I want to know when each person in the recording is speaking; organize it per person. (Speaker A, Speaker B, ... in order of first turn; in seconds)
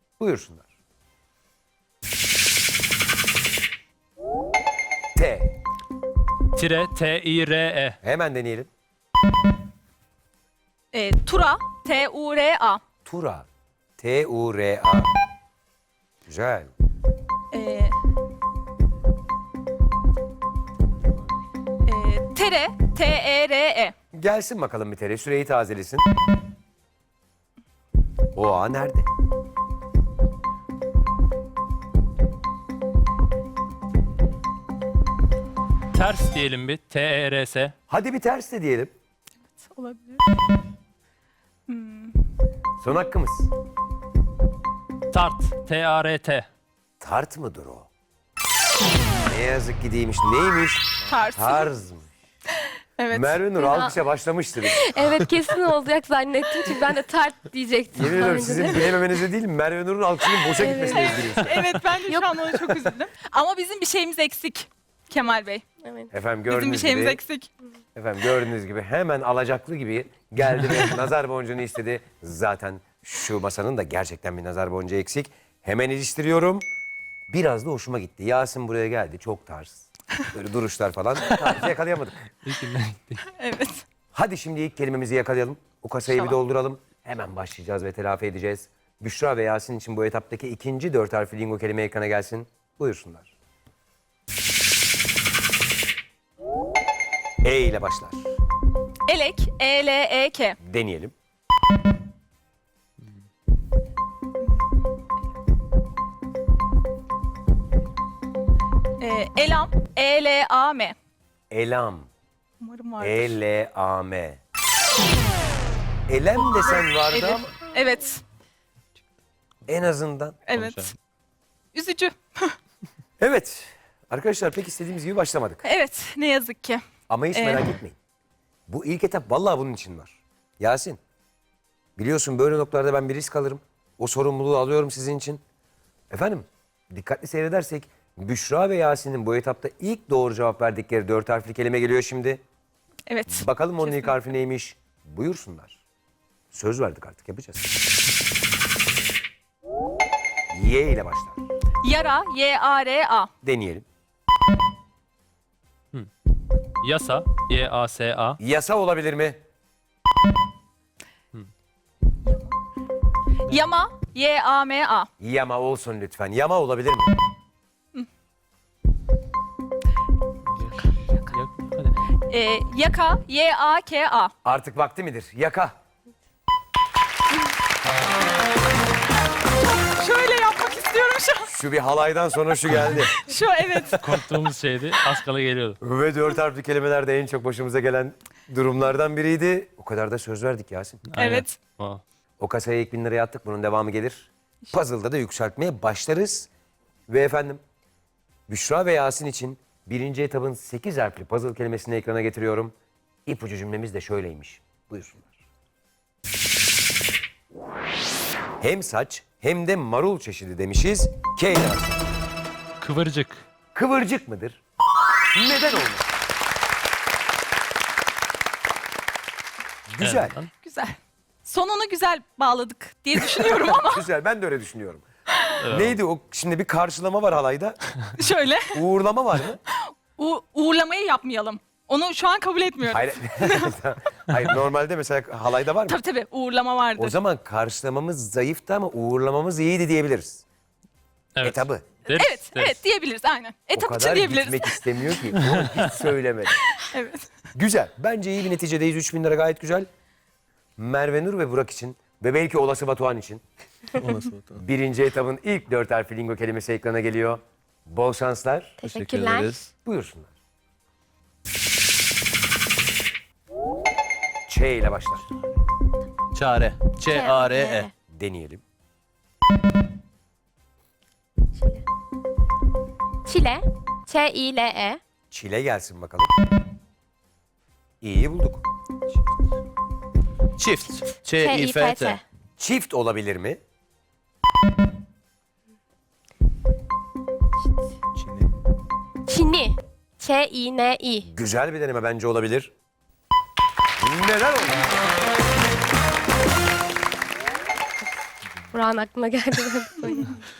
Speaker A: 0.2-0.7, 5.2-5.5, 8.0-8.7, 13.1-13.5, 14.0-15.1, 16.3-16.7, 24.1-26.1, 28.4-29.1, 37.9-38.9, 42.8-43.5, 47.0-47.9, 49.2-52.2, 53.1-54.9, 58.0-61.6, 66.1-67.2, 68.0-76.7, 77.3-82.3, 84.1-93.3, 97.4-98.2, 100.6-101.1, 111.5-112.1, 113.0-114.4, 116.1-117.6, 119.7-120.4, 123.2-125.6, 127.1-128.0, 128.7-131.0, 132.0-135.4, 136.1-142.4, 143.3-145.8, 146.5-147.7, 150.5-151.4, 153.4-153.8, 158.4-159.4, 165.2-167.1, 174.4-175.8, 181.5-183.2, 185.8-191.0, 192.4-196.5, 197.1-197.6, 198.5-202.7, 203.3-205.3, 208.6-212.1, 213.7-214.6, 215.3-216.1, 219.9-220.4, 223.6-225.0, 225.7-227.8, 228.7-229.6, 232.9-236.0, 237.0-240.4, 241.4-241.9, 243.7-246.6, 247.5-249.9, 250.8-253.4, 254.6-258.8, 259.8-260.3, 264.5-265.3, 268.1-268.6, 275.3-276.3, 278.0-278.7, 282.6-283.6, 291.2-292.7, 294.0-294.8
Speaker B: 6.6-8.0, 35.9-37.7, 45.1-46.5, 82.4-83.2, 120.6-120.8, 156.8-158.4, 170.5-172.2, 184.0-185.8, 191.1-192.0, 212.8-213.4, 220.0-220.5, 225.6-226.0, 241.4-242.8
Speaker C: 10.9-12.8, 17.5-17.9, 21.9-23.9, 39.5-40.3, 41.7-42.2, 51.1-51.7, 53.0-53.5, 60.7-65.6, 66.5-67.5, 83.3-83.8, 86.1-86.4, 99.1-100.6, 109.0-111.0, 112.6-113.4, 116.4-118.2, 120.5-121.0, 121.7-122.6, 125.6-127.7, 143.1-144.2, 151.8-153.3, 162.2-162.6, 163.5-165.1, 172.3-174.3, 179.6-181.5, 183.1-184.3, 191.2-191.6, 220.6-224.1, 228.2-228.8, 229.7-233.7, 235.9-237.2, 242.1-245.3, 246.6-247.3
Speaker D: 53.6-54.0, 54.8-58.9, 60.6-61.4, 65.8-66.1, 258.8-259.6, 267.1-267.9, 271.6-271.8, 273.3-275.0, 281.4-282.2, 289.3-291.3, 298.7-300.4
Speaker E: 253.9-254.7, 258.8-259.7, 266.3-267.9, 280.6-282.2, 288.2-288.5, 298.5-298.8